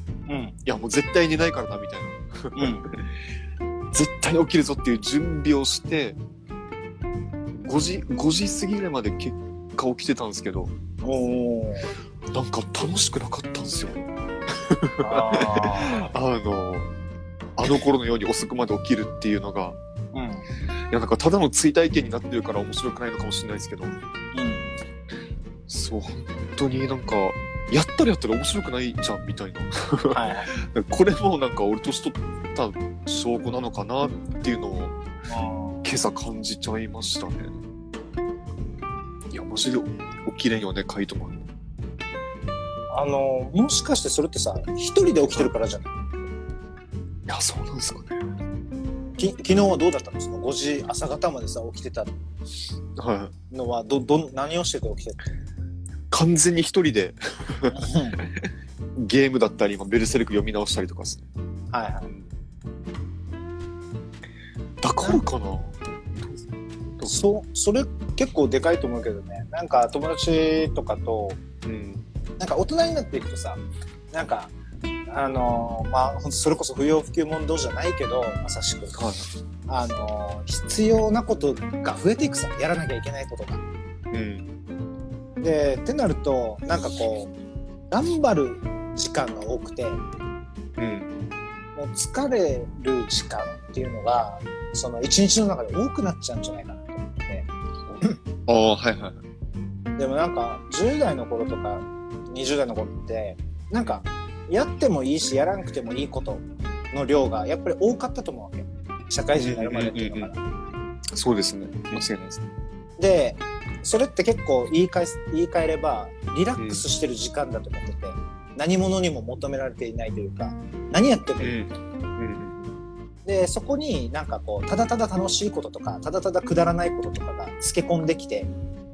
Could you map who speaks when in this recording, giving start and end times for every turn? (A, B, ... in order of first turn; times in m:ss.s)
0:00.3-0:00.6 A
0:00.6-0:03.0 B
0:02.6-0:02.9 A
0:03.9-0:06.2 B
0:07.5-0:10.7 B
0:11.0-0:11.9 A
0:12.3-0:16.9 B
0:15.0-0:16.1 A
0:17.6-0:19.8 B
0:20.1-0:20.4 A
0:20.9-0:23.9 B
0:24.3-0:24.8 A
0:25.7-0:35.0 B
0:30.1-0:30.5 A
0:35.2-0:35.8 A
0:35.8-0:37.6 B
0:39.3-0:41.4 B
0:42.9-0:46.0 A
0:47.3-0:48.2 B
0:49.2-0:52.1 A
0:53.0-0:53.3 B
0:53.5-0:55.2 A
0:56.1-1:01.2 B
0:57.7-0:58.2 A
1:01.7-1:02.1 A
1:04.8-1:07.2 B
1:07.1-1:11.4 A
1:11.6-1:12.0 B
1:12.4-1:13.6 A
1:14.1-1:14.5 A
1:15.1-1:19.0 A
1:18.9-1:19.3 B
1:19.7-1:23.6 A
1:24.1-1:24.5 B
1:25.4-1:27.3 A
1:27.9-1:30.0 A
1:30.8-1:31.1 B
1:31.8-1:37.5 A
1:37.9-1:39.2 B
1:40.0-1:50.4 A
1:49.4-1:50.3 B
1:51.2-1:52.4 B
1:53.0-2:01.5 A
1:56.6-1:56.8 B
2:01.4-2:02.6 B
2:03.2-2:08.5 A